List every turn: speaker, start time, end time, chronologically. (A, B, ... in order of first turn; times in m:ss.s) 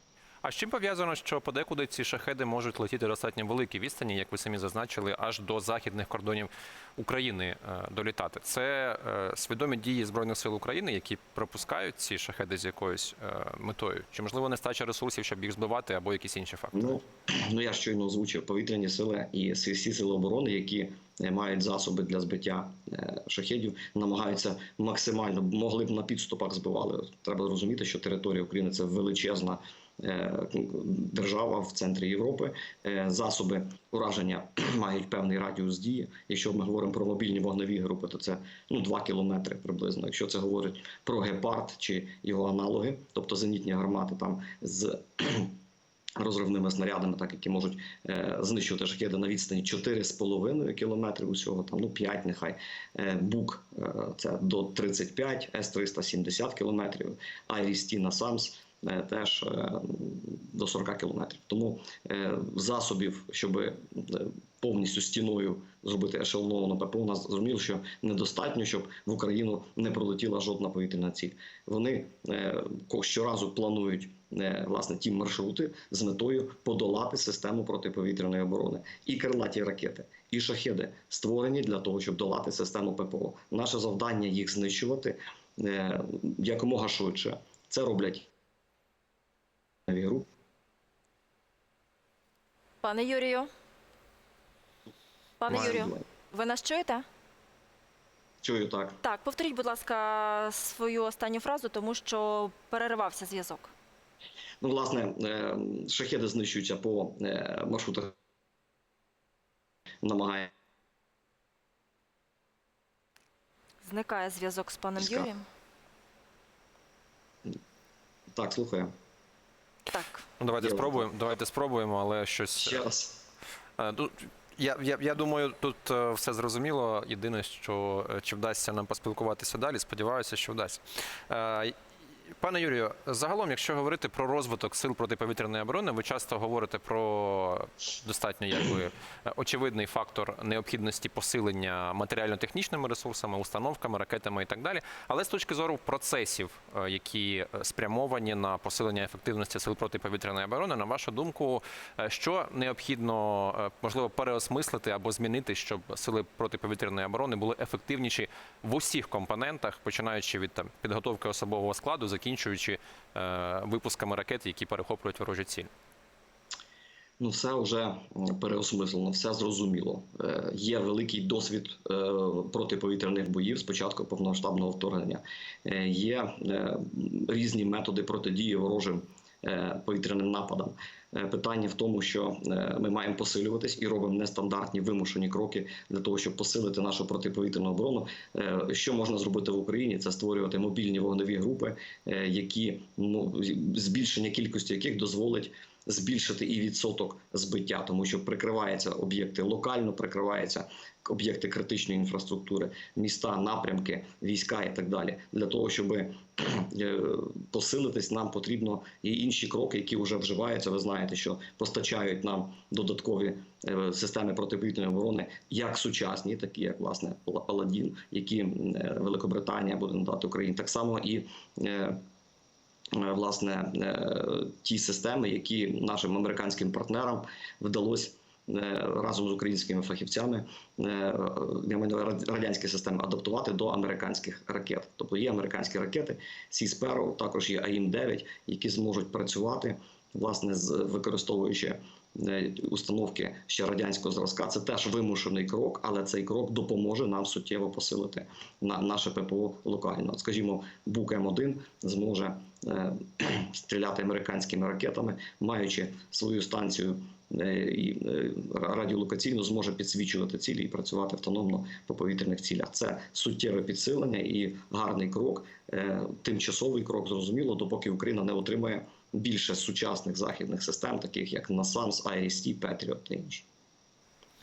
0:00.4-0:17.0 A
0:16.7-0:45.6 B
0:46.2-1:28.3 B
1:29.9-1:30.3 B
1:32.8-1:33.5 C
1:35.4-1:37.0 C
1:35.5-1:36.0 B
1:38.4-1:39.0 B
1:39.0-1:43.7 C
1:44.6-1:48.1 B
1:50.0-1:50.5 B
1:53.8-1:55.4 C
1:55.0-1:55.3 B
1:58.3-1:58.9 B
1:59.9-2:00.2 C
2:00.4-2:02.8 A
2:00.6-2:00.9 B
2:02.6-2:03.2 B
2:03.8-2:11.7 A
2:12.4-2:45.7 A
2:47.2-3:42.0 B
3:42.9-4:33.4 B